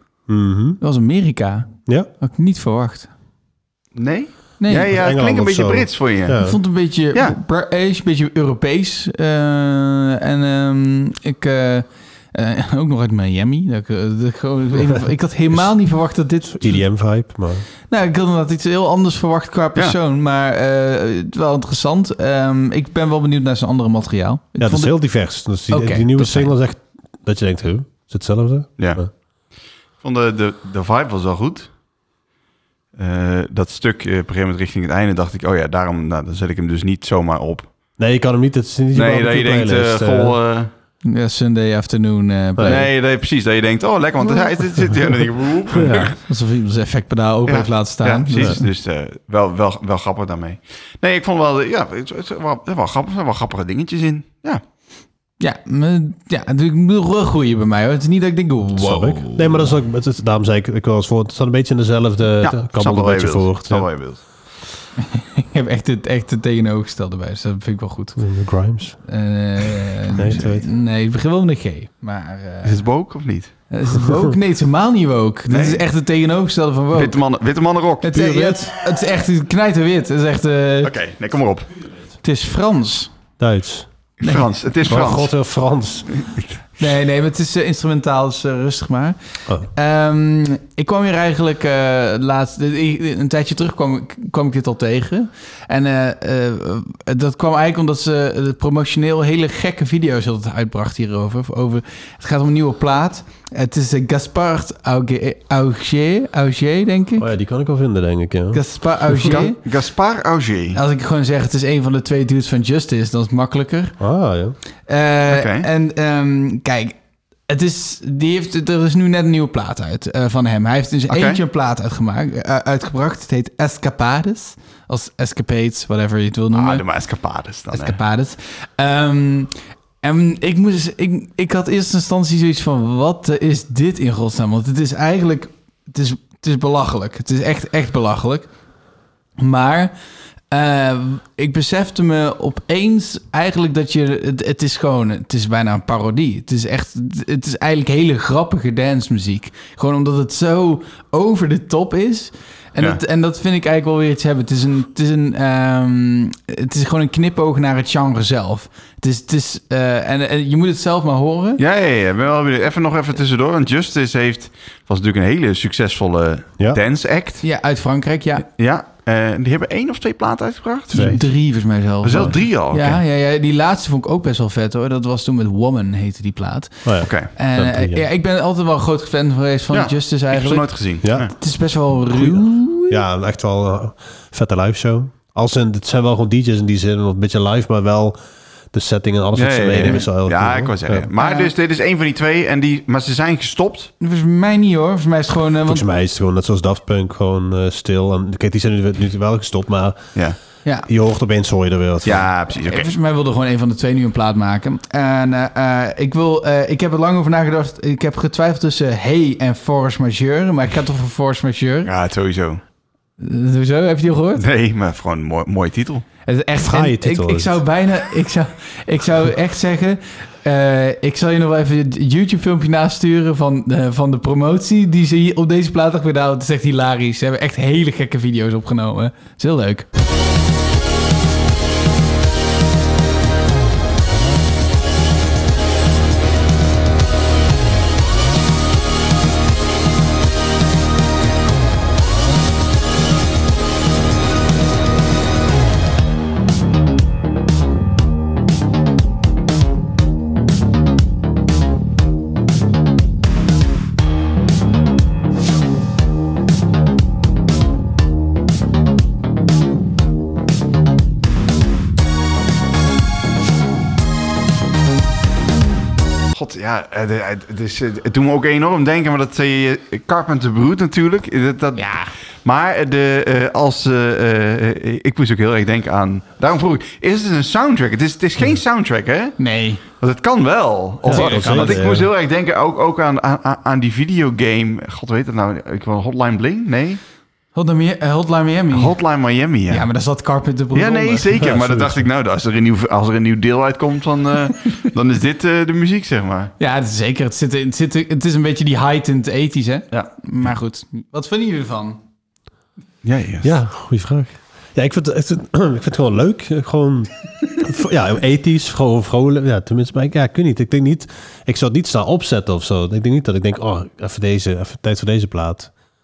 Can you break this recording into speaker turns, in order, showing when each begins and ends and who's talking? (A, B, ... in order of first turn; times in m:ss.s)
0:00.3-0:00.8 A
0:00.8-0:03.1 B
0:03.9-0:06.4 C
0:04.6-0:04.9 B
0:04.7-0:06.6 A
0:06.4-0:16.8 B
0:14.8-0:15.7 A
0:16.5-0:17.6 A
0:17.9-0:24.9 B
0:24.6-0:29.1 A
0:25.7-0:26.5 B
0:28.8-0:29.0 C
0:30.0-0:31.7 C
0:33.0-0:37.7 C
0:38.0-0:40.4 A
0:38.9-0:40.7 C
0:41.0-0:42.9 B
0:42.6-0:42.9 A
0:42.6-0:46.2 C
0:45.7-0:46.1 A
0:46.3-0:48.6 B
0:47.4-0:54.6 C
0:55.4-0:59.7 B
0:58.7-1:03.9 A
1:02.4-1:04.2 C
1:05.0-1:08.2 B
1:08.2-1:09.0 A
1:09.0-1:12.8 B
1:10.1-1:10.6 A
1:12.6-1:13.5 C
1:13.7-1:17.2 B
1:14.1-1:14.4 A
1:15.5-1:15.8 C
1:16.9-1:18.6 C
1:18.0-1:20.9 B
1:20.8-1:21.7 C
1:22.2-1:23.1 B
1:23.4-1:23.9 A
1:24.2-1:25.3 C
1:24.2-1:25.2 B
1:24.9-1:26.1 A
1:26.2-1:26.4 C
1:26.8-1:47.3 B
1:47.2-1:49.3 A
1:48.5-1:49.6 B
1:49.2-1:50.8 C
1:50.7-1:54.0 B
1:54.0-1:54.6 A
1:54.9-2:06.8 B
1:55.3-1:55.7 C
2:01.1-2:01.4 C
2:06.5-2:08.0 C
2:07.7-2:18.5 B
2:19.4-2:19.9 B
2:20.5-2:41.6 B
2:41.6-2:47.4 C
2:47.4-2:48.4 B
2:48.5-2:51.2 C
2:50.9-2:51.2 A
2:50.9-3:03.0 B
2:52.0-2:53.0 C
2:56.8-2:58.0 A
2:57.0-2:57.3 C
2:59.7-3:01.3 C
3:01.0-3:01.3 A
3:02.9-3:08.2 A
3:08.7-3:11.1 A
3:09.3-3:13.9 C
3:11.2-3:11.5 B
3:14.0-3:15.8 B
3:15.6-3:20.1 A
3:20.9-3:22.3 A
3:22.0-3:22.9 C
3:22.5-3:31.9 B
3:31.8-3:32.6 C
3:33.2-3:34.4 B
3:34.4-3:36.0 C
3:36.2-3:49.9 B
3:36.6-3:37.6 A
4:26.3-4:39.4 C
4:31.8-4:32.1 B
4:39.4-4:39.8 B
4:40.0-4:47.0 C
4:41.0-4:42.1 A
4:41.1-4:41.8 B
4:47.5-4:49.0 B
4:48.7-4:49.9 C
4:49.7-4:51.3 B
4:50.7-4:56.5 C
4:51.4-4:52.0 A
4:56.6-5:02.0 B
5:03.0-5:03.5 C
5:03.4-5:15.7 A